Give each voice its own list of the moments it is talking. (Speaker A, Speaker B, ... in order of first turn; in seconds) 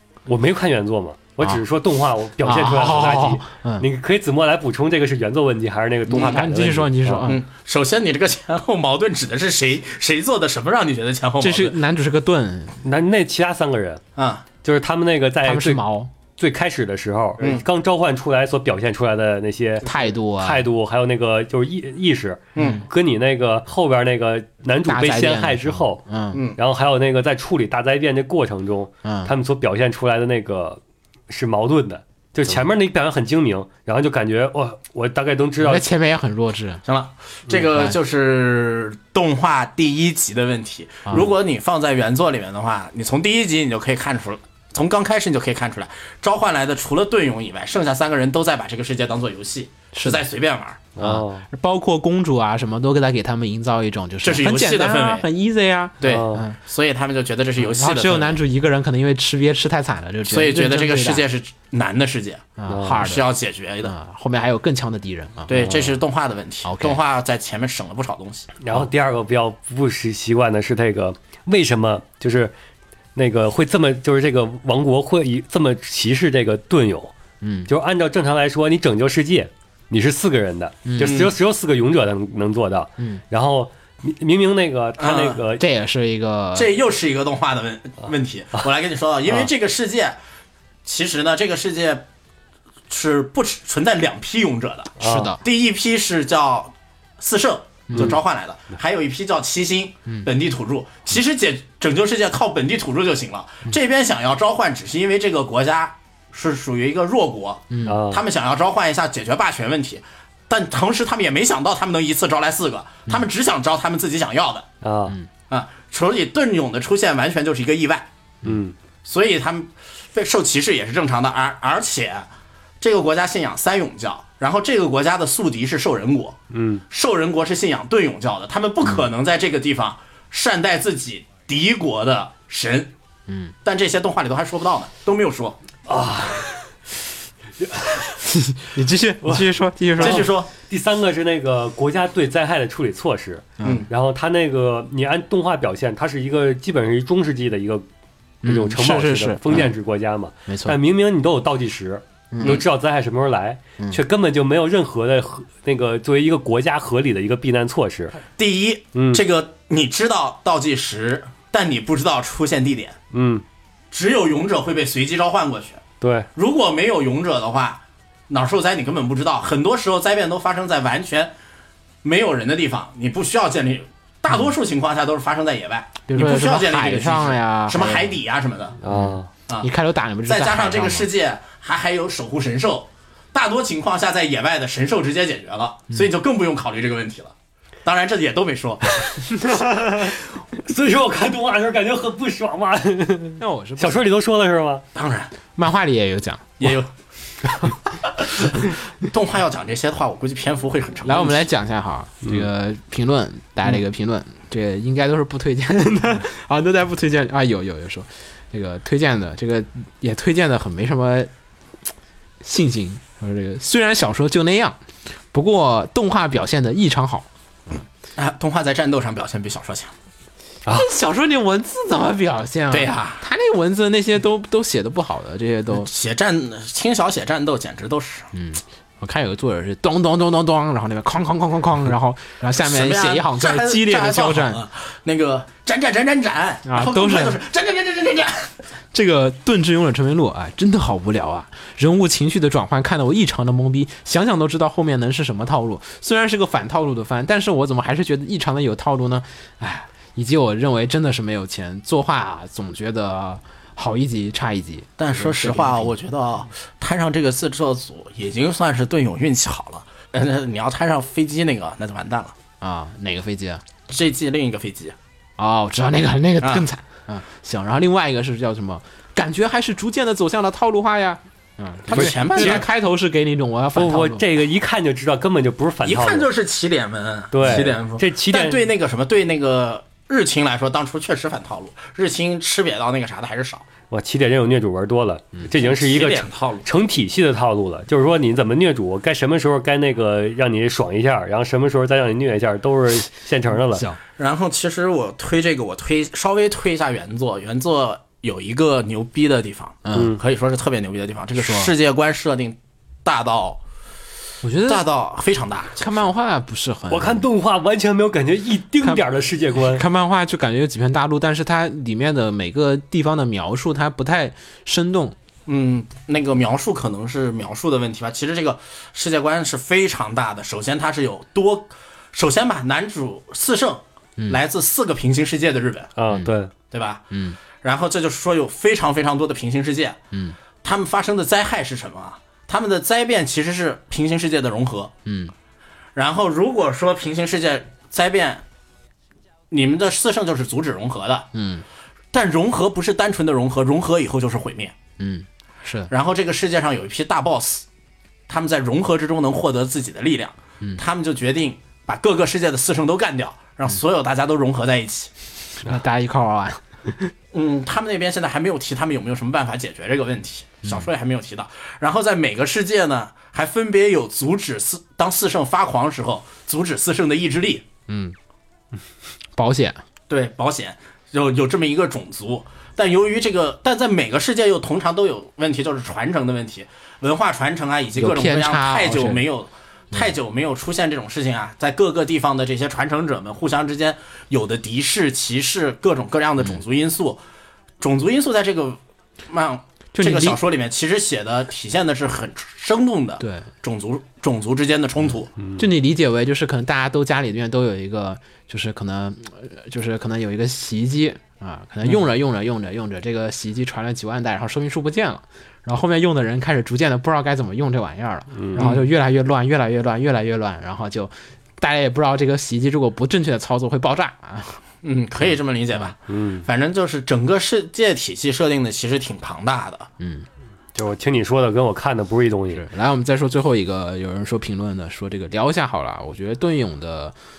Speaker A: 0.3-7.3, 12.8-14.0, 14.6-15.8, 16.4-19.9, 20.4-26.0, 26.6-35.9, 51.0-51.5, 56.0-56.4, 62.7-63.0, 68.6-72.5, 73.2-77.1, 77.7-85.6, 95.0-95.3, 107.9-108.2, 114.8-115.2, 118.4-118.8, 126.5-126.8, 135.9-136.6, 137.6-138.1, 140.0-147.8, 148.4-158.2, 158.9-159.2, 163.1-163.4, 166.0-166.3, 178.8-179.3, 189.7-194.8, 271.9-272.6, 273.8-276.3, 277.3-278.7, 283.9-293.9, 299.9-300.2, 306.9-309.8, 326.0-326.5, 395.4-395.6, 408.3-408.7, 416.1-416.4, 420.8-422.6
Speaker B: 2.4-3.9, 6.1-7.4, 11.4-12.8, 15.4-16.1, 19.8-20.7, 22.6-22.9, 24.9-26.4, 29.0-29.3, 35.6-36.8, 37.6-38.0, 49.9-50.2, 51.0-56.6, 57.6-61.2, 62.6-63.3, 63.8-66.0, 66.6-67.0, 77.4-77.7, 80.9-81.3, 85.6-86.8, 95.0-95.4, 97.9-98.2, 107.7-108.0, 133.3-133.5, 138.1-140.3, 143.6-143.9, 148.4-149.7, 150.5-150.8, 152.3-152.6, 176.1-178.2, 178.9-181.1, 193.4-194.1, 195.6-196.8, 201.0-211.3, 212.4-214.8, 215.3-217.3, 220.7-225.9, 228.3-234.6, 236.7-237.4, 238.9-255.9, 262.6-263.6, 265.4-274.2, 293.7-294.0, 299.9-300.1, 301.4-301.7, 304.4-304.9, 305.8-307.2, 308.8-315.2, 327.1-327.4, 330.1-330.4, 335.1-335.3, 341.3-341.6, 345.0-345.9, 355.6-357.1, 367.9-368.2, 369.4-369.8, 378.0-379.3, 389.9-390.4, 393.2-393.5, 395.6-414.6, 415.2-415.9, 420.0-420.3, 422.5-427.2
Speaker C: 6.1-6.4, 7.2-11.8, 14.2-14.4, 22.6-22.9, 26.3-26.6, 36.9-50.8, 54.2-55.2, 56.0-58.4, 60.3-63.9, 65.5-68.5, 81.0-81.3, 85.0-85.4, 86.5-90.2, 90.8-92.0, 92.9-114.7, 115.5-118.1, 119.0-122.3, 122.8-126.4, 126.9-132.9, 133.6-135.6, 140.0-140.5, 143.6-143.9, 158.4-163.0, 163.9-165.8, 166.3-171.3, 172.0-178.8, 180.3-187.3, 187.8-189.4, 194.9-195.3, 196.6-196.9, 198.4-201.5, 218.2-219.9, 222.7-223.2, 225.7-228.3, 232.6-238.5, 255.0-262.4, 263.9-265.0, 266.4-266.7, 271.9-272.7, 275.8-283.6, 285.6-286.7, 294.2-303.6, 304.7-306.0, 315.5-325.9, 326.7-327.1, 327.6-330.0, 330.6-334.9, 335.9-338.4, 339.5-341.3, 342.1-344.8, 345.9-347.6, 348.3-355.1, 357.3-367.6, 370.1-387.2, 387.8-395.3, 408.6-408.9, 414.8-419.9